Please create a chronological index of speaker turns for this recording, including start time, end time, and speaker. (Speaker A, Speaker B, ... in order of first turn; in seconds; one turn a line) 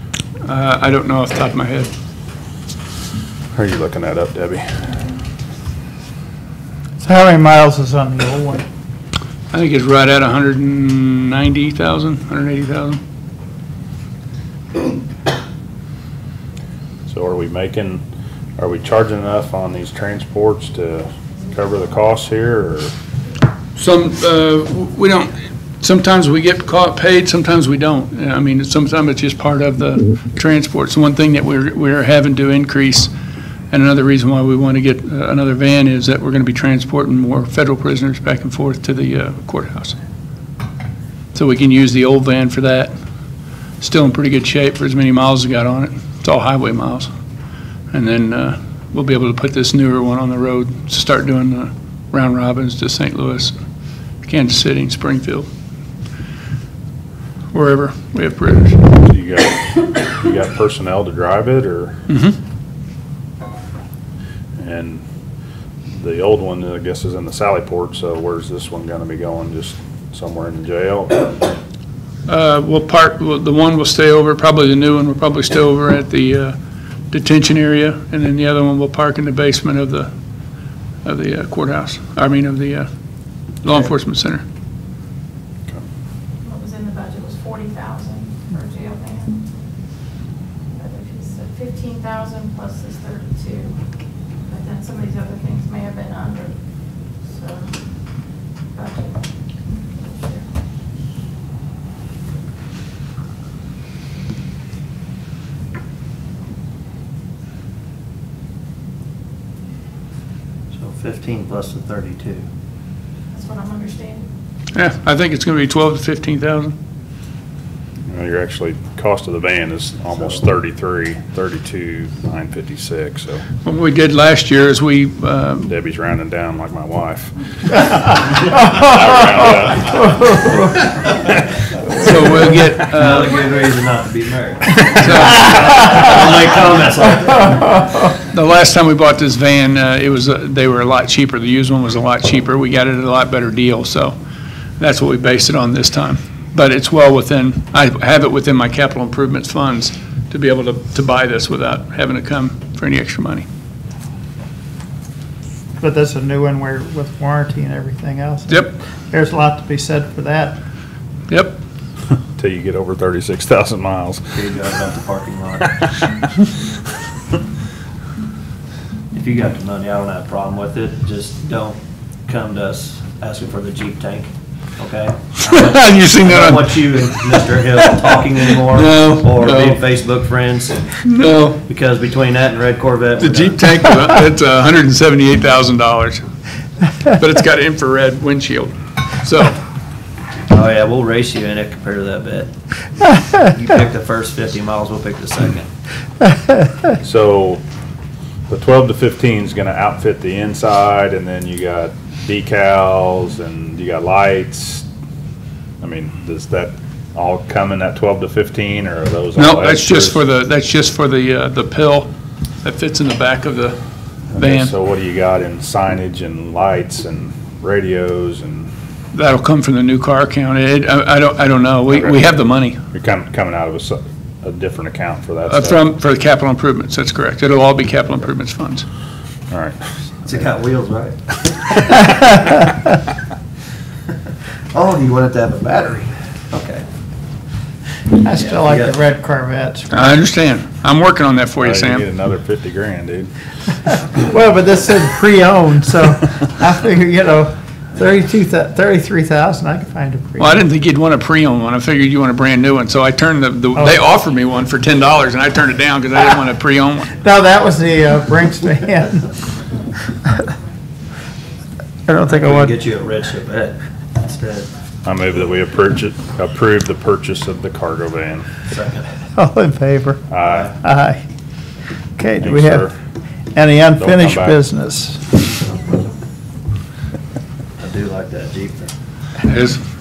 Speaker A: 0.4-1.9
Speaker B: 3.5-4.7
Speaker C: 7.0-8.6
Speaker A: 9.5-13.0
Speaker B: 17.1-18.0
Speaker B: 18.6-22.9
Speaker A: 23.8-33.1
Speaker A: 33.7-40.0
Speaker A: 41.3-42.9
Speaker A: 43.8-47.1
Speaker A: 47.9-53.6
Speaker A: 54.2-55.5
Speaker A: 57.5-58.8
Speaker B: 59.0-62.0
Speaker A: 62.1-62.4
Speaker B: 64.6-65.0
Speaker B: 65.9-71.3
Speaker A: 72.3-76.6
Speaker A: 77.1-80.1
Speaker A: 81.0-82.9
Speaker A: 83.6-84.4
Speaker D: 86.4-89.5
Speaker D: 90.8-93.8
Speaker D: 94.5-96.6
Speaker D: 97.2-97.8
Speaker D: 98.7-100.5
Speaker E: 110.7-112.4
Speaker D: 113.3-114.3
Speaker A: 114.7-116.8
Speaker B: 118.1-123.4
Speaker E: 120.2-120.4
Speaker A: 123.6-125.7
Speaker B: 125.6-130.2
Speaker C: 128.7-128.9
Speaker C: 129.9-130.8
Speaker A: 132.0-133.4
Speaker E: 132.9-137.7
Speaker A: 134.9-135.7
Speaker A: 138.3-144.2
Speaker A: 144.8-153.5
Speaker C: 155.8-160.6
Speaker A: 158.5-158.7
Speaker A: 161.3-161.6
Speaker B: 162.3-164.3
Speaker E: 164.3-165.7
Speaker B: 165.8-166.1
Speaker E: 169.1-180.9
Speaker A: 175.4-179.8
Speaker A: 181.1-181.6
Speaker E: 181.7-183.7
Speaker A: 183.2-186.2
Speaker A: 187.1-189.6
Speaker E: 190.5-192.5
Speaker E: 193.4-195.7
Speaker C: 196.4-196.7
Speaker B: 197.0-197.6
Speaker B: 198.5-204.9
Speaker B: 205.8-210.2
Speaker A: 209.4-212.1
Speaker A: 212.6-213.8
Speaker B: 214.3-218.7
Speaker A: 214.4-214.7
Speaker A: 219.1-222.8
Speaker B: 221.9-222.2
Speaker B: 222.9-225.8
Speaker A: 225.5-228.9
Speaker B: 229.5-229.8
Speaker E: 230.2-231.8
Speaker E: 234.7-236.9
Speaker C: 238.2-240.1
Speaker E: 238.3-239.0
Speaker A: 239.9-242.1
Speaker B: 241.6-243.3
Speaker C: 244.1-250.7
Speaker A: 250.4-257.1
Speaker C: 253.8-254.0
Speaker C: 257.2-259.3
Speaker C: 262.1-262.8
Speaker E: 262.3-264.7
Speaker B: 265.0-268.5
Speaker E: 268.7-269.1
Speaker C: 269.4-270.2
Speaker B: 270.3-270.7
Speaker E: 270.5-270.8
Speaker C: 270.8-271.2
Speaker C: 272.2-272.9
Speaker B: 272.4-272.9
Speaker C: 273.5-275.2
Speaker B: 274.0-274.6
Speaker E: 277.8-278.9
Speaker A: 279.4-279.8